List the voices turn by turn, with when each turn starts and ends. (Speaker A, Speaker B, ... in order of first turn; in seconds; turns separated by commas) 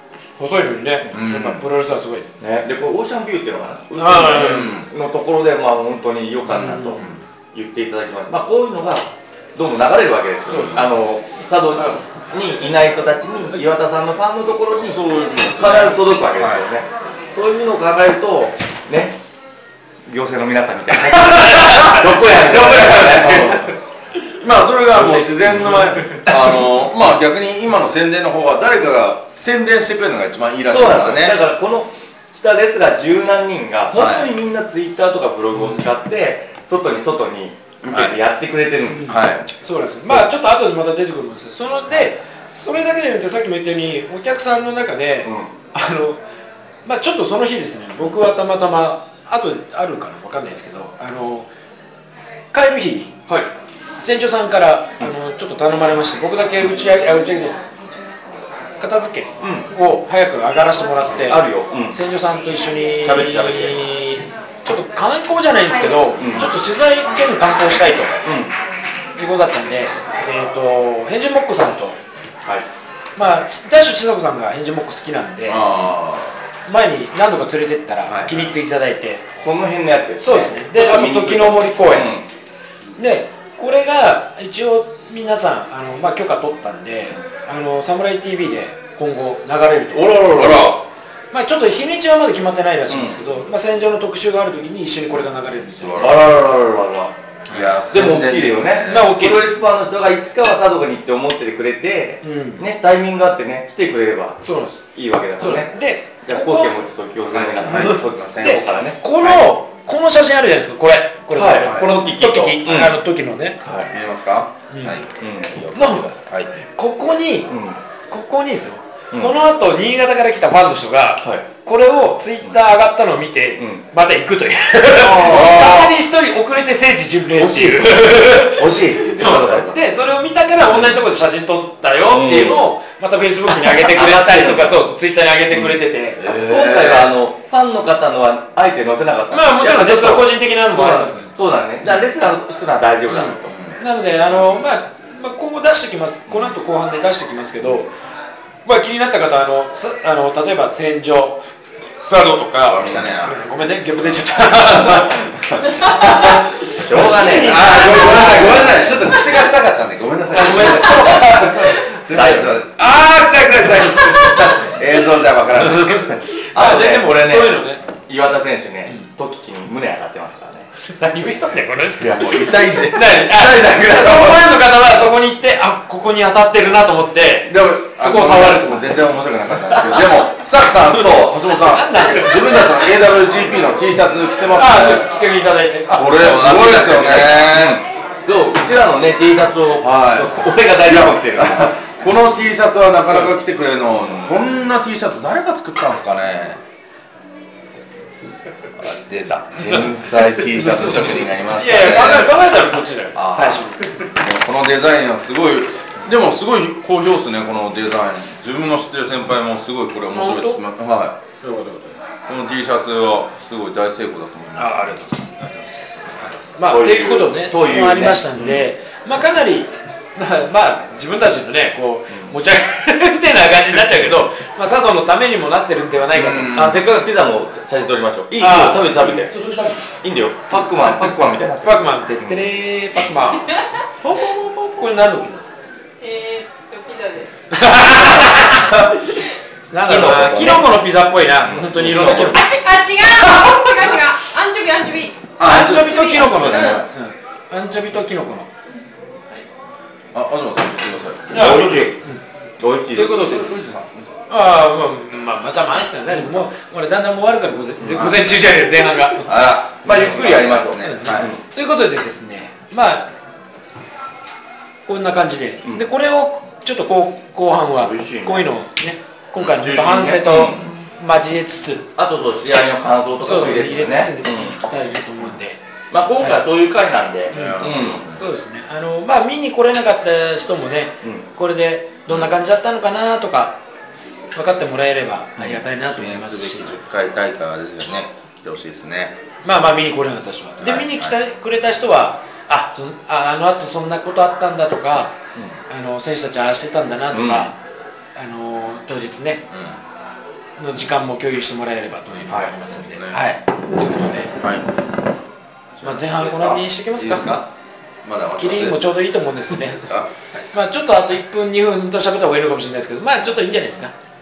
Speaker A: 0.4-2.3, Speaker B: 1.0-1.7, Speaker C: 2.4-19.2, Speaker A: 4.0-4.8, Speaker B: 4.3-4.9, Speaker A: 6.5-7.0, Speaker B: 7.0-7.2, Speaker A: 10.5-10.9, Speaker B: 14.7-16.6, Speaker C: 20.1-23.8, Speaker A: 21.2-23.5, Speaker B: 22.5-23.6, Speaker B: 24.4-31.4, Speaker C: 24.9-25.9, Speaker A: 25.5-25.9, Speaker C: 30.7-39.3, Speaker B: 33.9-34.3, Speaker A: 35.5-35.9, Speaker B: 37.9-38.2, Speaker A: 38.9-46.2, Speaker B: 39.0-39.5, Speaker C: 45.2-45.5, Speaker A: 46.8-51.5, Speaker A: 52.5-53.2, Speaker A: 54.0-57.6, Speaker A: 58.8-68.2, Speaker C: 59.4-59.7, Speaker C: 61.3-62.0, Speaker C: 63.0-63.9, Speaker C: 66.2-66.5, Speaker C: 68.2-68.5, Speaker A: 69.2-72.0, Speaker A: 73.2-75.7, Speaker B: 75.4-76.3, Speaker A: 76.7-79.2, Speaker B: 78.0-78.5, Speaker C: 79.4-82.2, Speaker A: 80.2-82.1, Speaker A: 83.0-90.3, Speaker C: 90.0-90.8, Speaker B: 90.0-90.8, Speaker A: 91.3-96.3, Speaker C: 92.9-93.2, Speaker B: 95.7-96.3, Speaker C: 96.0-97.1, Speaker B: 97.5-99.2, Speaker C: 97.9-109.4, Speaker A: 98.9-99.5, Speaker A: 102.2-102.6, Speaker A: 104.4-104.8, Speaker A: 105.4-106.7, Speaker B: 107.3-108.6, Speaker A: 107.6-113.6, Speaker C: 111.3-113.0, Speaker B: 111.6-111.9, Speaker C: 113.6-113.9, Speaker B: 113.8-116.5, Speaker A: 114.7-115.0, Speaker C: 115.2-115.5, Speaker A: 115.7-117.5, Speaker C: 117.5-117.8, Speaker A: 118.1-136.2, Speaker C: 121.2-121.5, Speaker C: 123.6-123.8, Speaker C: 125.0-125.9, Speaker B: 125.0-125.9, Speaker C: 127.3-129.8, Speaker C: 132.1-132.7, Speaker C: 133.5-134.9, Speaker B: 136.2-137.1, Speaker C: 136.2-143.6, Speaker A: 139.3-141.3, Speaker A: 143.1-147.9, Speaker B: 143.5-143.8, Speaker A: 148.6-159.2, Speaker B: 152.6-153.4, Speaker C: 154.7-155.1, Speaker B: 155.6-156.4, Speaker C: 156.7-158.9, Speaker B: 157.3-166.2, Speaker A: 160.3-161.9, Speaker C: 161.0-161.5, Speaker C: 162.1-162.6, Speaker A: 162.8-164.6, Speaker A: 165.6-167.8, Speaker C: 166.4-170.7, Speaker A: 170.8-180.2, Speaker B: 172.0-174.4, Speaker C: 173.5-174.2, Speaker B: 177.5-185.2, Speaker A: 181.6-182.8, Speaker A: 184.5-187.4, Speaker B: 185.9-187.8, Speaker C: 186.5-191.8, Speaker B: 189.8-196.6, Speaker C: 193.9-194.4, Speaker B: 198.8-202.4, Speaker A: 199.6-203.9, Speaker B: 203.1-211.2, Speaker A: 210.1-210.6, Speaker A: 211.4-211.9, Speaker B: 212.2-215.7, Speaker A: 214.5-226.7, Speaker C: 216.7-218.3, Speaker B: 218.4-218.6, Speaker B: 226.1-226.8, Speaker C: 226.5-229.3, Speaker A: 228.4-229.9, Speaker C: 230.0-232.5, Speaker A: 231.6-235.6, Speaker D: 236.0-238.5, Speaker A: 237.5-238.9, Speaker C: 238.6-238.9, Speaker A: 239.7-242.4, Speaker C: 239.8-240.7, Speaker C: 241.4-242.4, Speaker B: 241.8-242.2, Speaker D: 242.0-245.2, Speaker B: 243.2-243.6, Speaker B: 245.4-246.8, Speaker A: 245.4-248.5, Speaker D: 245.7-246.8, Speaker B: 250.1-251.8, Speaker A: 251.3-252.2, Speaker C: 251.3-252.0, Speaker C: 252.6-253.6, Speaker A: 252.9-253.5, Speaker B: 252.9-253.9, Speaker A: 254.3-259.3, Speaker C: 257.8-258.1, Speaker B: 257.9-258.4, Speaker B: 259.2-261.3, Speaker C: 259.8-261.4, Speaker A: 260.8-263.1, Speaker A: 264.9-271.9, Speaker C: 267.8-268.5, Speaker C: 269.4-270.7, Speaker C: 272.0-274.6, Speaker A: 273.2-275.6, Speaker C: 275.9-278.0, Speaker B: 277.3-278.3, Speaker A: 277.3-283.6, Speaker A: 284.3-286.8, Speaker B: 285.9-289.2, Speaker A: 289.4-295.1, Speaker B: 290.6-291.1, Speaker A: 295.7-297.5, Speaker C: 297.1-297.5, Speaker A: 298.1-299.4, Speaker B: 299.5-299.8, Speaker A: 300.6-304.3, Speaker B: 302.7-303.2, Speaker B: 304.4-304.7, Speaker B: 305.8-307.5, Speaker A: 305.8-307.4, Speaker B: 308.0-308.8, Speaker A: 308.4-309.8, Speaker B: 309.5-310.1, Speaker A: 310.5-313.9